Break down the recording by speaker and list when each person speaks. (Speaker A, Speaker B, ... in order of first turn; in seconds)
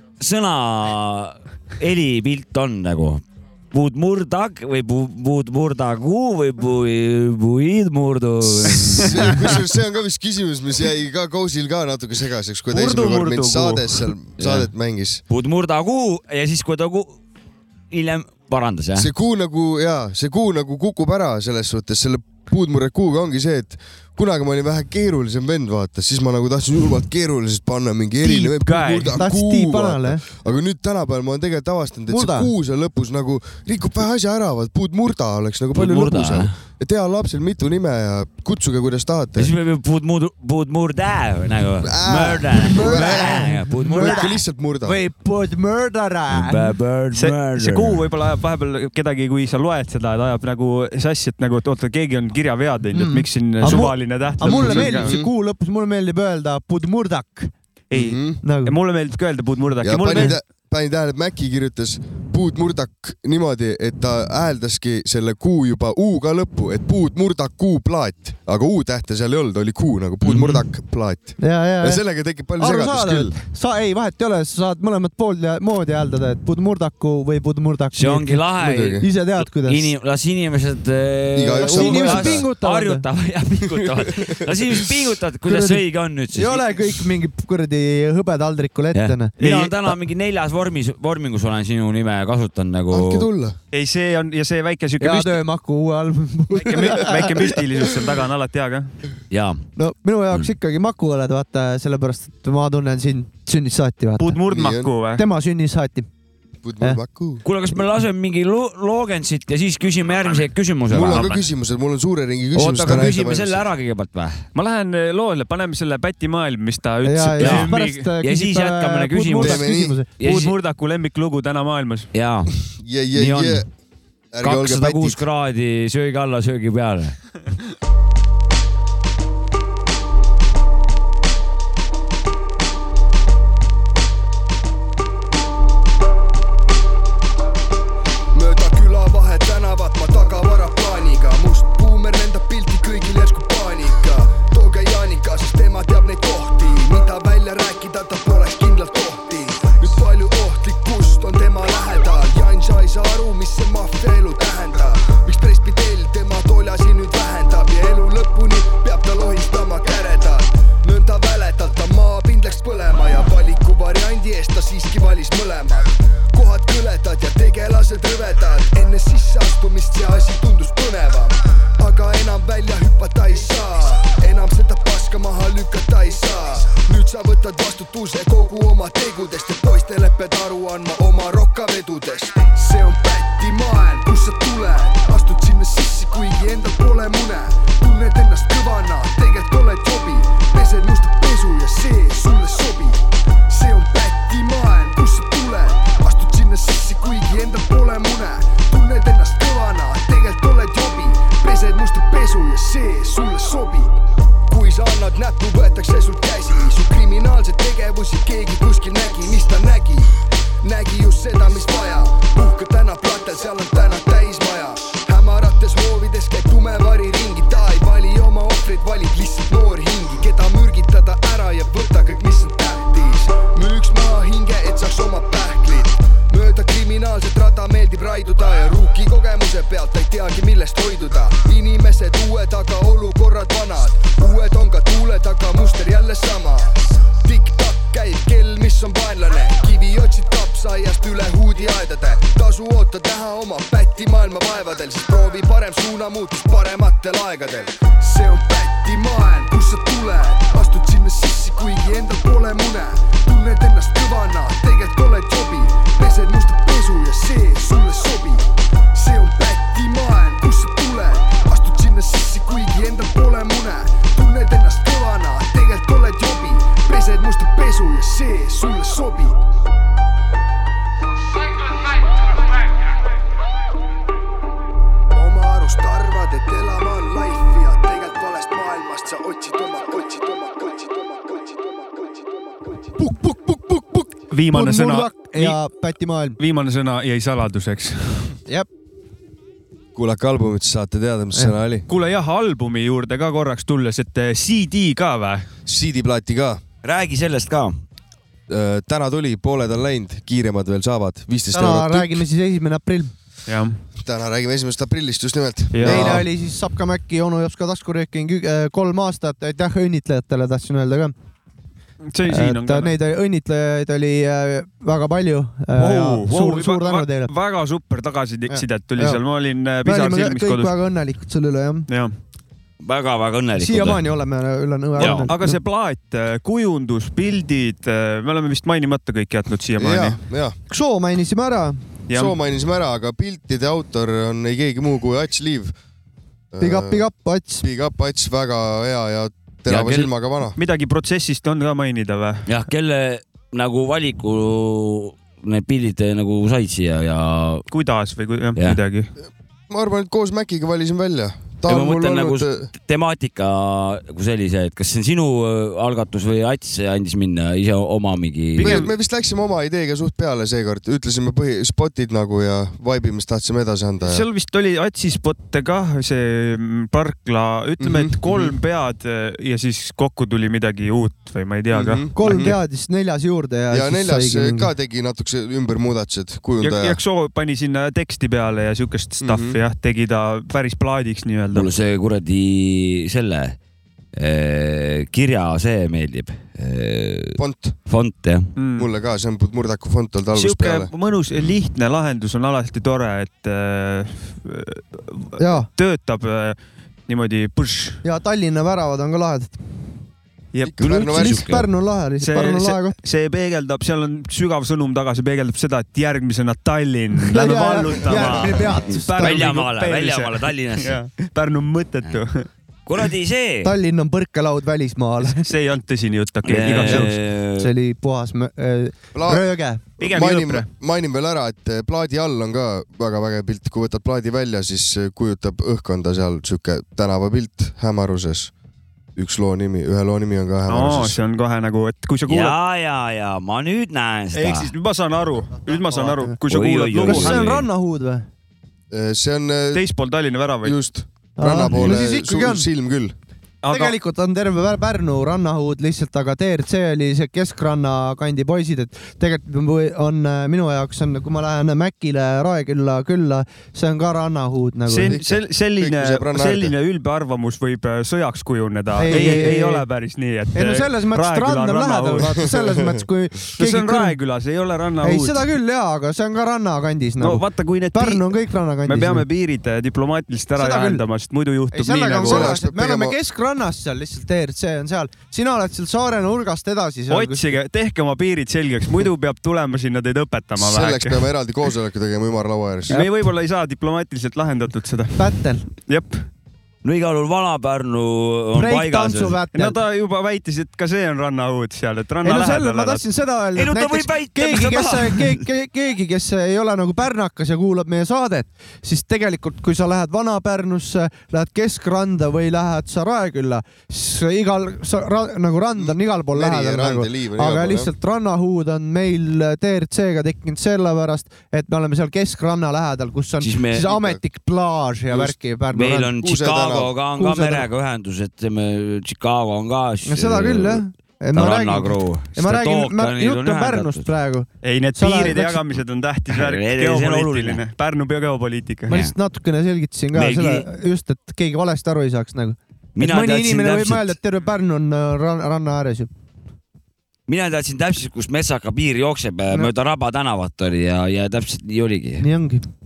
Speaker A: 0.2-9.6, 14.4-14.7, 15.3-17.2, 17.9-19.1, 35.7-36.6, 39.4-44.3, 46.3-48.0, 70.2-70.6, 77.9-86.7, 88.9-93.3, 99.3-99.6, 107.4-111.3, 112.5-114.4, 117.4-120.5, 122.1-122.5, 123.2-123.6, 124.4-127.2, 296.8-297.8, 322.8-324.0, 325.0-325.3, 339.7-340.1, 342.5-347.6, 351.7-358.9, 381.5-383.6, 384.1-388.5, 400.8-401.7, 408.9-411.0, 412.9-413.7, 416.4-417.7, 432.3-434.7, 436.5-437.7, 486.8-489.4, 493.5-495.4, 513.4-513.9, 515.7-520.8, 521.3-524.0, 526.3-527.6, 530.1-530.7, 533.0-534.1, 537.3-542.2
Speaker B: 8.7-15.2, 19.0-39.5, 41.9-43.3, 44.0-44.9, 54.5-55.2, 57.9-58.4, 59.8-73.3, 78.6-79.0, 81.4-82.4, 84.1-84.4, 92.9-93.5, 104.5-104.9, 106.6-107.4, 110.9-113.6, 119.4-120.0, 122.5-123.6, 124.3-125.2, 289.9-291.8, 295.7-296.6, 298.5-302.2, 304.1-306.2, 329.8-330.5, 332.1-335.7, 336.5-337.0, 337.6-340.5, 349.7-352.6, 358.6-364.2, 367.8-368.5, 371.7-372.5, 373.7-376.9, 379.2-379.5, 387.4-387.7, 388.8-390.9, 400.7-401.3, 419.1-419.4, 420.0-428.5, 429.1-431.2, 438.9-439.8, 440.6-443.1, 455.1-456.7, 472.2-473.1, 480.6-482.9, 505.8-507.9, 516.2-516.9
Speaker C: 9.3-10.2, 14.4-15.0, 28.7-29.3, 35.7-36.2, 42.1-43.5, 44.1-44.8, 60.1-60.6, 93.0-93.5, 106.8-107.2, 110.9-111.3, 112.5-113.1, 138.3-269.4, 275.1-282.8, 372.0-372.4, 441.6-442.2
Speaker D: 12.7-14.1, 28.2-29.2, 47.1-55.1, 57.9-60.4, 89.4-89.9, 93.7-95.4, 96.5-98.9, 104.2-105.2, 110.2-110.5, 111.0-111.5, 114.5-118.1, 120.2-122.1, 284.3-285.6, 286.4-288.3, 291.9-295.5, 303.5-303.8, 305.7-306.2, 312.1-312.9, 315.7-320.7, 321.9-322.1, 325.0-330.2, 332.1-332.4, 340.6-342.5, 347.7-349.1, 358.6-358.9, 364.0-372.5, 376.6-381.7, 388.6-388.9, 390.3-396.6, 397.1-398.0, 400.5-400.9, 402.2-412.5, 415.2-417.1, 420.0-420.7, 430.7-432.5, 434.3-437.5, 439.7-440.8, 443.6-443.9, 454.9-462.4, 463.6-465.4, 467.2-472.6, 477.1-481.3, 482.9-486.2, 489.5-493.0, 524.6-529.0
Speaker E: 29.1-30.2, 32.1-32.5, 42.7-46.7, 52.9-57.5, 58.4-58.7, 71.4-72.0, 72.5-79.9, 81.6-83.1, 85.5-89.3, 95.0-97.5, 99.8-104.4, 105.2-106.1, 117.0-120.1, 283.0-286.4, 301.5-303.1, 305.8-311.1, 312.3-317.3, 318.5-319.2, 319.8-321.9, 323.6-325.6, 330.7-331.8, 336.6-337.6, 372.1-374.7, 395.4-395.7, 398.0-399.6, 400.8-402.9, 407.3-409.5, 413.6-415.5, 416.9-419.8, 435.7-436.3, 437.0-438.3, 441.4-442.7, 443.7-455.2, 459.0-459.8, 460.5-464.2, 465.0-469.2, 470.6-471.0, 471.7-477.5, 482.9-483.1, 485.2-485.6, 488.5-489.8, 492.2-516.1, 517.1-517.7, 520.0-525.6, 528.9-536.1, 542.2-542.6